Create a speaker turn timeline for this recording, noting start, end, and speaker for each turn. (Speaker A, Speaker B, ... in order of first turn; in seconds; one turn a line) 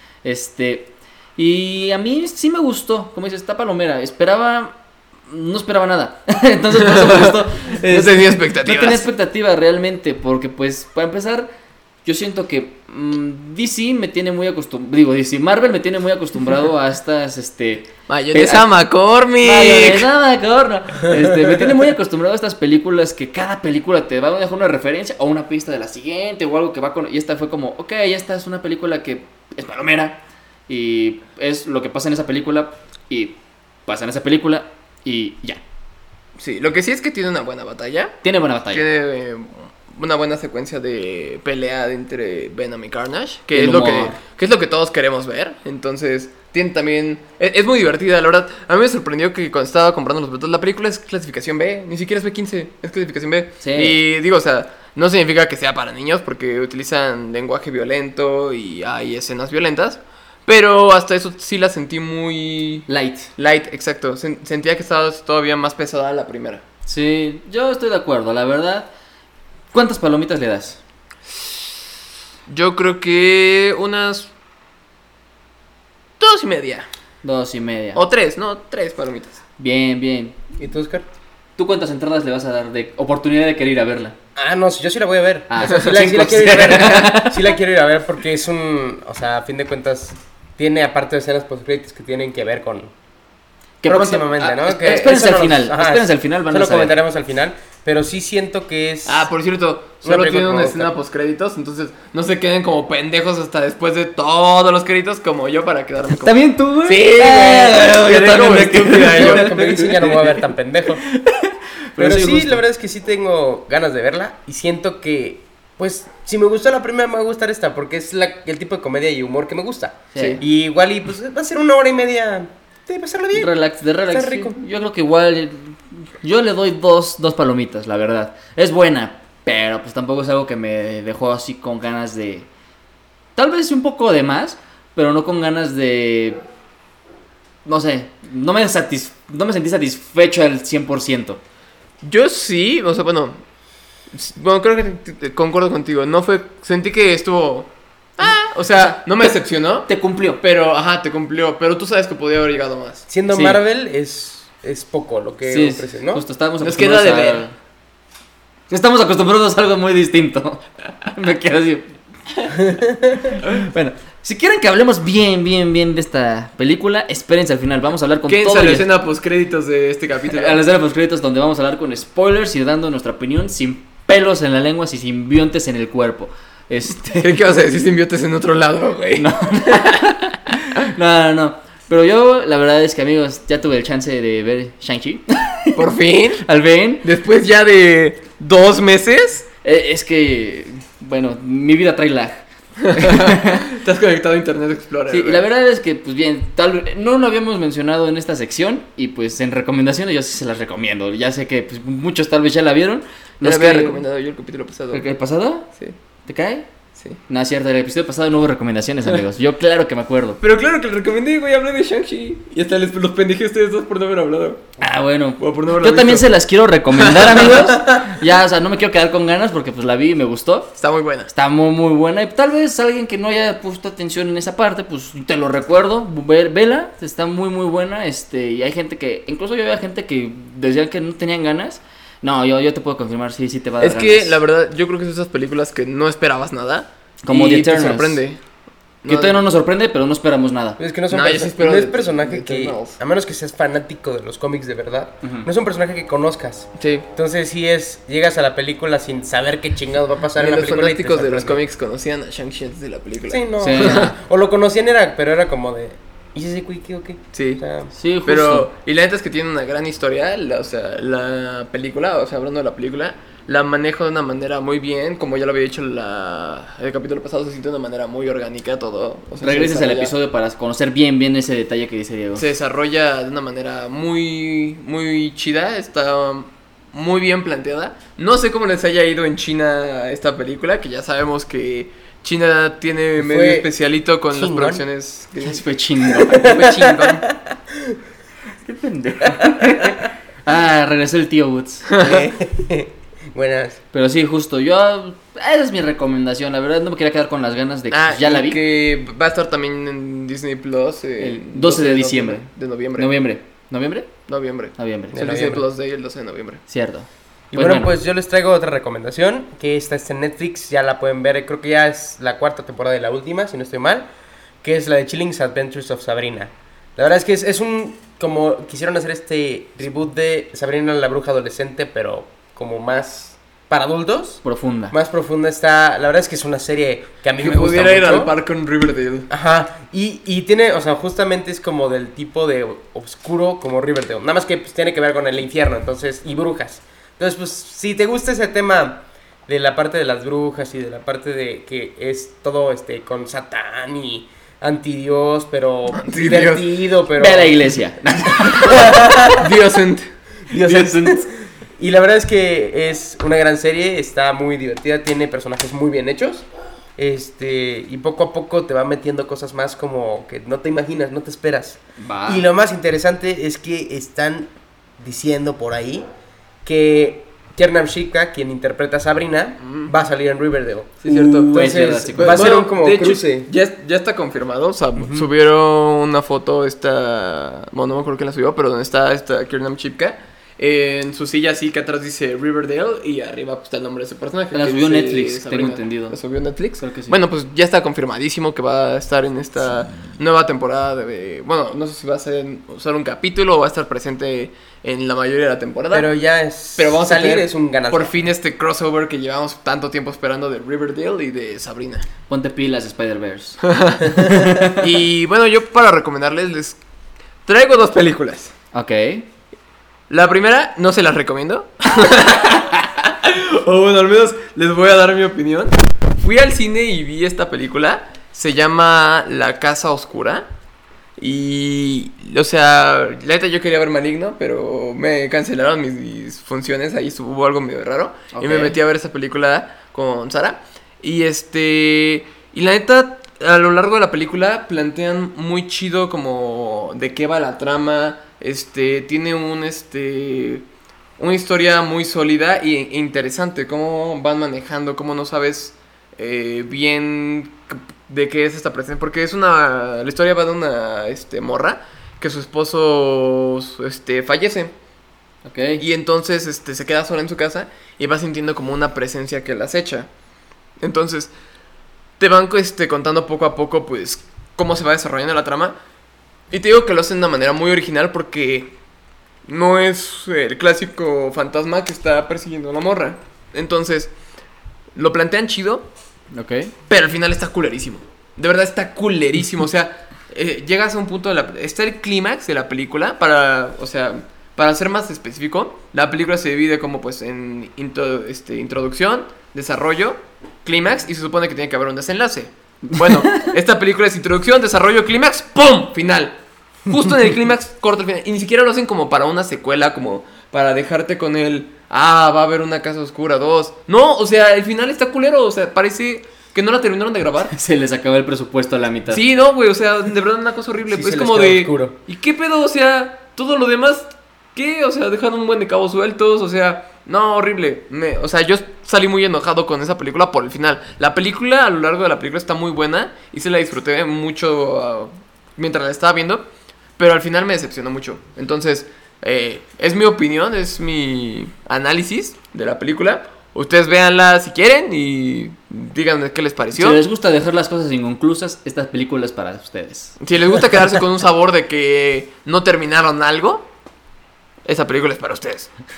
Speaker A: 0.2-4.8
Speaker A: 5.3-11.5
Speaker B: 6.8-9.1
Speaker A: 12.0-18.7
Speaker B: 18.1-20.1
Speaker A: 19.4-35.6
Speaker B: 36.4-66.6
Speaker A: 38.2-38.8
Speaker A: 43.5-44.2
Speaker A: 53.6-54.0
Speaker A: 62.9-63.3
Speaker A: 66.8-68.9
Speaker A: 69.7-70.8
Speaker B: 72.5-74.3
Speaker B: 76.2-76.9
Speaker A: 77.2-78.0
Speaker B: 77.9-79.4
Speaker A: 79.6-80.4
Speaker C: 80.6-81.0
Speaker A: 81.6-84.2
Speaker C: 84.3-92.9
Speaker A: 85.5-87.5
Speaker A: 93.8-96.9
Speaker C: 93.8-99.3
Speaker B: 99.0-110.2
Speaker C: 100.0-100.9
Speaker A: 106.2-110.2
Speaker C: 109.1-111.0
Speaker A: 111.1-112.6
Speaker C: 112.0-123.5
Speaker A: 120.1-120.4
Speaker B: 120.2-120.4
Speaker A: 123.3-132.5
Speaker C: 124.1-124.6
Speaker A: 133.3-136.4
Speaker A: 137.6-141.4
Speaker B: 142.0-143.4
Speaker B: 144.1-153.1
Speaker A: 148.2-149.0
Speaker A: 149.9-150.4
Speaker C: 153.1-156.2
Speaker A: 153.3-153.6
Speaker A: 155.5-157.5
Speaker B: 156.6-157.4
Speaker A: 158.7-162.6
Speaker C: 162.7-163.3
Speaker A: 163.3-168.9
Speaker B: 168.3-170.6
Speaker A: 170.3-177.3
Speaker B: 177.2-179.3
Speaker A: 179.2-185.8
Speaker B: 185.7-186.4
Speaker A: 186.4-187.0
Speaker B: 187.0-189.5
Speaker A: 189.6-193.6
Speaker B: 192.8-195.4
Speaker A: 195.1-204.0
Speaker B: 203.4-205.0
Speaker A: 204.9-205.7
Speaker A: 206.3-206.7
Speaker A: 207.3-210.4
Speaker B: 210.4-214.8
Speaker A: 214.8-220.7
Speaker B: 215.4-216.3
Speaker B: 216.9-217.7
Speaker B: 220.8-221.3
Speaker A: 221.3-234.4
Speaker B: 233.8-238.4
Speaker A: 237.2-238.2
Speaker B: 239.0-239.4
Speaker A: 239.1-240.8
Speaker C: 240.8-251.6
Speaker B: 241.1-243.0
Speaker B: 246.8-247.0
Speaker B: 250.3-254.1
Speaker C: 253.3-257.9
Speaker A: 253.6-254.1
Speaker B: 257.3-257.6
Speaker A: 257.9-258.7
Speaker B: 258.2-270.1
Speaker A: 269.4-272.4
Speaker B: 272.4-287.2
Speaker C: 283.2-283.7
Speaker C: 284.3-284.8
Speaker A: 285.4-286.6
Speaker C: 286.4-287.9
Speaker A: 288.6-292.0
Speaker C: 289.4-289.7
Speaker B: 291.9-292.2
Speaker C: 292.0-293.8
Speaker A: 293.9-298.6
Speaker B: 297.9-303.2
Speaker A: 301.2-304.1
Speaker B: 304.3-306.6
Speaker A: 304.8-305.4
Speaker C: 305.1-305.6
Speaker A: 306.7-307.9
Speaker C: 307.5-314.1
Speaker C: 314.6-328.3
Speaker A: 324.4-324.9
Speaker B: 327.4-329.3
Speaker C: 329.3-347.6
Speaker B: 345.9-346.8
Speaker A: 347.2-348.9
Speaker C: 348.6-349.5
Speaker B: 349.3-350.1
Speaker C: 350.5-366.0
Speaker A: 350.6-351.1
Speaker A: 362.0-362.4
Speaker C: 366.6-373.5
Speaker B: 369.6-369.9
Speaker B: 371.0-396.1
Speaker A: 371.1-372.5
Speaker A: 375.0-375.3
Speaker A: 384.5-386.1
Speaker A: 386.8-387.1
Speaker C: 395.9-398.1
Speaker B: 396.8-402.1
Speaker A: 402.3-403.6
Speaker B: 403.6-404.0
Speaker A: 404.1-404.8
Speaker B: 404.8-406.8
Speaker B: 407.4-408.5
Speaker A: 408.7-409.2
Speaker B: 410.1-420.5
Speaker B: 421.2-440.6
Speaker A: 428.3-428.8
Speaker B: 441.2-454.7
Speaker A: 455.4-455.8
Speaker B: 455.8-460.1
Speaker B: 460.8-461.3
Speaker B: 462.2-465.8
Speaker B: 466.5-468.7
Speaker B: 469.4-474.1
Speaker B: 474.9-475.9
Speaker A: 476.3-476.7
Speaker B: 476.9-507.5
Speaker A: 493.0-493.4
Speaker A: 507.5-509.2
Speaker B: 509.1-526.4
Speaker C: 510.9-511.9
Speaker B: 527.0-537.0
Speaker A: 536.7-540.2
Speaker B: 540.2-543.7
Speaker B: 544.6-545.7